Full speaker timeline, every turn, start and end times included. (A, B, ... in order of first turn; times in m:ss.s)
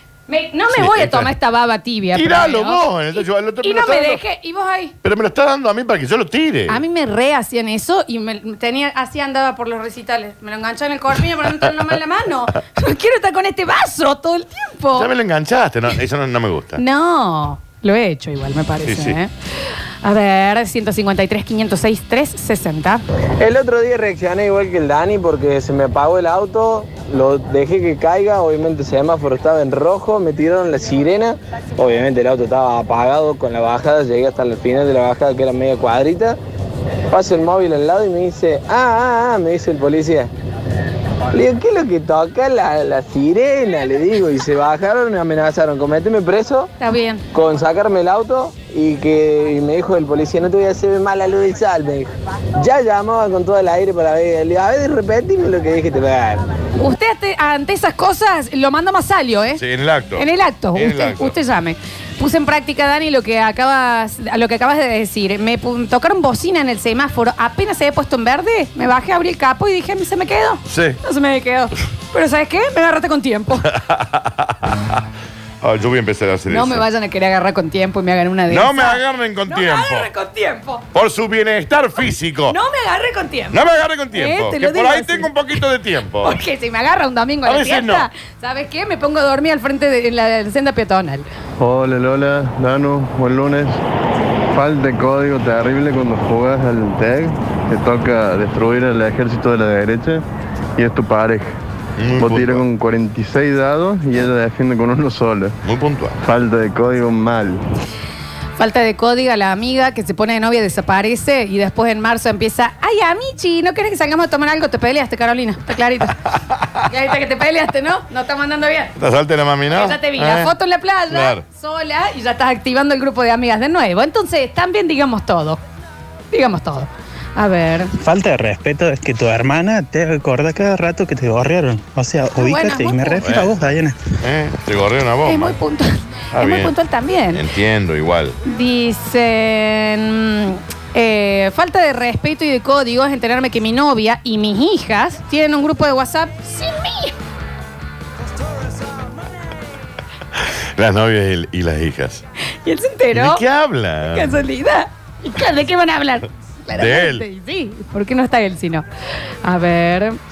0:00.3-0:05.0 A
0:00.7-0:01.3 B
0:02.1-0:04.2 B
0:05.0-0:06.8 B
0:06.7-0:15.1 A
0:15.0-0:16.8 B
0:16.8-0:19.3 A
0:18.9-0:19.2 B
0:20.0-0:23.0 A
0:23.4-0:36.4 C
0:37.1-0:40.3 C
0:41.3-0:46.7 C
0:46.8-0:47.2 A
0:47.3-0:56.4 C
0:56.8-0:59.6 A
0:59.5-1:01.4 B
1:00.2-1:13.7 A
1:10.7-1:11.0 B
1:13.8-1:14.8 B
1:15.6-1:16.8 B
1:16.5-1:20.8 A
1:18.5-1:20.1 B
1:20.9-1:22.6 B
1:22.5-1:25.6 A
1:23.5-1:26.4 B
1:26.2-1:31.2 A
1:27.5-1:28.1 B
1:31.6-1:33.8 D
1:34.5-1:40.2 D
1:40.8-1:41.6 D
1:42.0-1:42.7 B
1:42.2-1:45.6 D
1:45.6-1:46.2 B
1:46.2-1:47.6 D
1:48.6-1:56.3 A
1:56.9-1:58.9 A
1:59.0-2:00.5 B
1:59.7-2:05.6 A
2:01.1-2:01.4 B
2:06.3-2:07.9 A
2:08.0-2:14.0 E
2:12.3-2:13.3 A
2:13.2-2:13.6 B
2:14.2-2:15.6 B
2:15.2-2:17.4 A
2:16.3-2:16.7 B
2:17.3-2:18.4 B
2:18.4-2:27.1 A
2:30.4-2:32.2 B
2:32.6-2:33.4 A
2:33.1-2:34.4 B
2:34.1-2:38.9 A
2:36.8-2:37.2 B
2:39.4-2:40.2 A